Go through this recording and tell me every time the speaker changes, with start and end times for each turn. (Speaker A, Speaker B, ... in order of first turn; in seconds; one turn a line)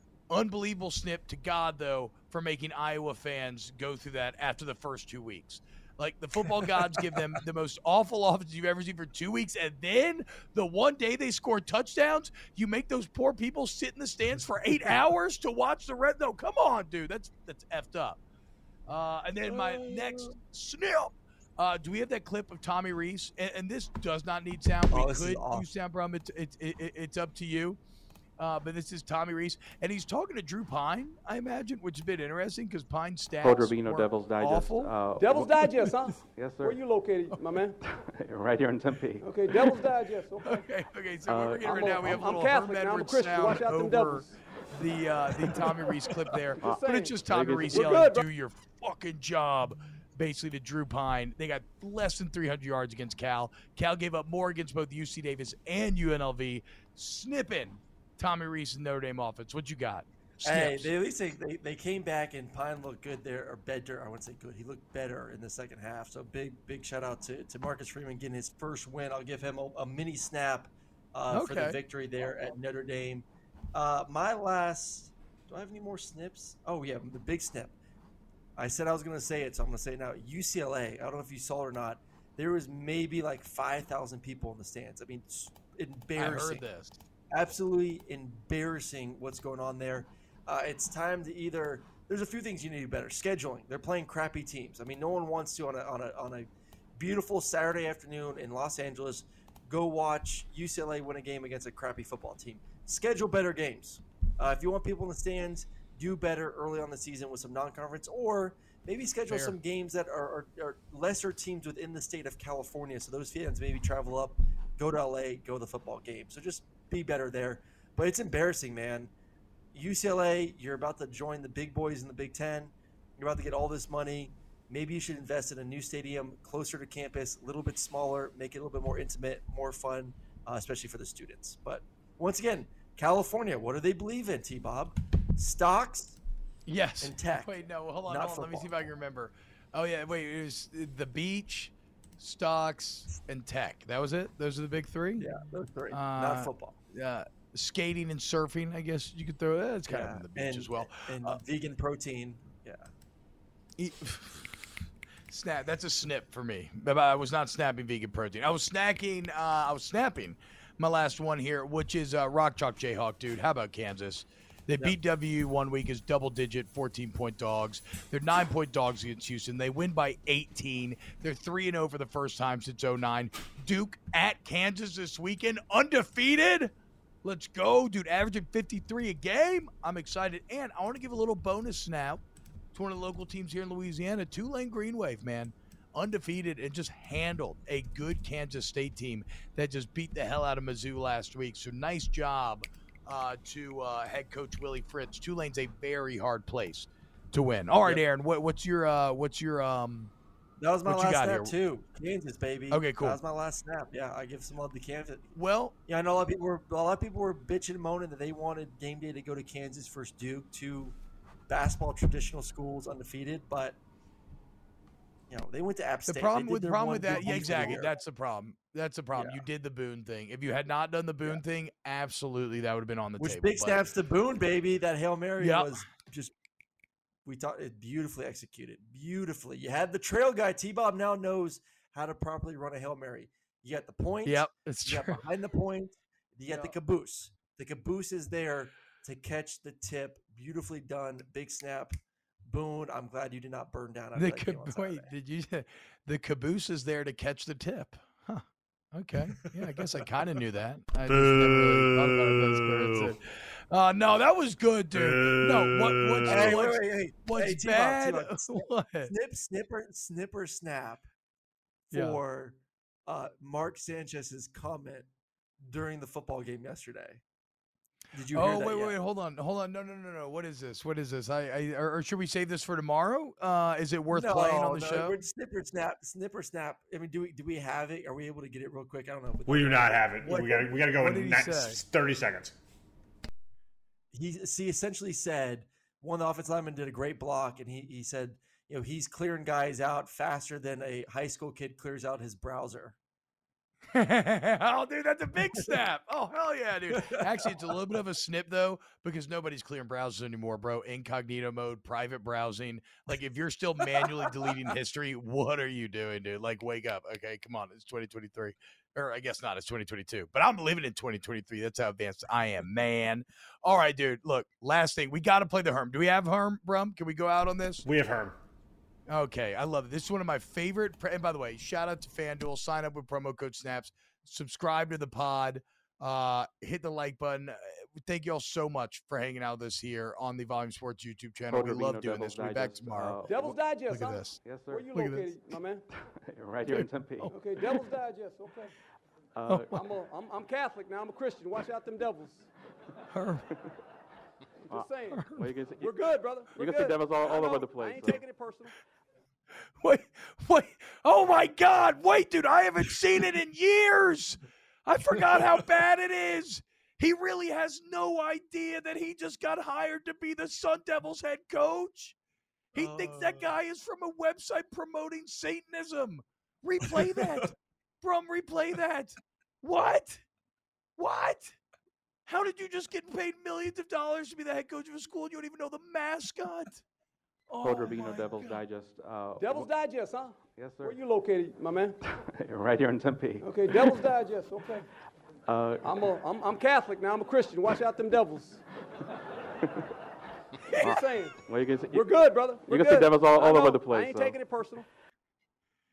Speaker A: 0.3-18.2
Speaker A: 18.9-27.8
Speaker B: 19.5-20.3
Speaker B: 24.9-25.7
Speaker A: 28.4-35.0
Speaker C: 33.4-36.8
Speaker D: 35.2-37.8
Speaker C: 37.8-39.7
Speaker D: 39.2-40.7
Speaker A: 40.4-60.9
Speaker C: 41.3-42.5
Speaker D: 41.5-44.3
Speaker D: 46.6-48.2
Speaker C: 46.6-48.1
Speaker B: 60.4-77.7
Speaker A: 71.3-71.8
Speaker B: 78.6-86.6
Speaker A: 86.2-87.0
Speaker B: 87.3-119.1
Speaker A: 109.3-109.5
Speaker B: 119.7-136.2
Speaker A: 136.7-145.3
Speaker B: 137.0-138.8
Speaker B: 145.2-146.8
Speaker A: 145.9-151.4
Speaker B: 149.9-152.9
Speaker A: 153.8-154.7
Speaker A: 155.3-176.7
Speaker A: 177.2-182.2
Speaker A: 182.7-200.1
Speaker B: 200.6-205.3
Speaker A: 200.8-201.5
Speaker A: 202.7-203.2
Speaker A: 205.3-205.7
Speaker B: 205.9-210.9
Speaker B: 211.5-213.8
Speaker B: 215.3-217.9
Speaker A: 216.1-223.9
Speaker B: 219.1-219.4
Speaker B: 223.2-226.3
Speaker A: 225.4-225.8
Speaker B: 227.2-245.1
Speaker A: 234.2-235.2
Speaker A: 244.2-259.1
Speaker E: 251.1-252.9
Speaker E: 254.9-256.4
Speaker B: 256.2-261.1
Speaker B: 261.9-265.1
Speaker A: 261.9-262.2
Speaker B: 265.6-267.2
Speaker B: 268.1-269.0
Speaker A: 268.3-275.2
Speaker B: 274.1-280.4
Speaker E: 279.5-282.6
Speaker A: 280.2-281.8
Speaker B: 284.1-292.9
Speaker A: 293.9-317.8
Speaker B: 296.9-297.5
Speaker B: 303.9-304.5
Speaker E: 317.8-318.4
Speaker A: 319.1-335.6
Speaker C: 331.5-333.6
Speaker D: 333.3-335.8
Speaker C: 334.3-334.9
Speaker C: 335.9-337.4
Speaker A: 336.7-337.7
Speaker D: 337.3-338.7
Speaker C: 339.3-339.8
Speaker A: 339.5-339.8
Speaker D: 339.7-342.5
Speaker A: 343.1-343.5
Speaker C: 344.7-346.0
Speaker D: 344.7-348.7
Speaker A: 345.1-345.5
Speaker C: 346.5-348.2
Speaker A: 349.8-362.1
Speaker A: 362.7-370.2
Speaker B: 362.7-363.5
Speaker A: 371.0-371.6
Speaker A: 372.3-376.8
Speaker A: 377.5-378.6
Speaker C: 377.6-379.7
Speaker D: 379.4-382.0
Speaker C: 380.5-381.0
Speaker C: 382.0-383.9
Speaker D: 383.4-384.9
Speaker C: 385.5-385.9
Speaker D: 385.8-388.6
Speaker A: 390.7-391.0
Speaker D: 390.8-391.4
Speaker C: 390.8-394.4
Speaker D: 391.9-394.9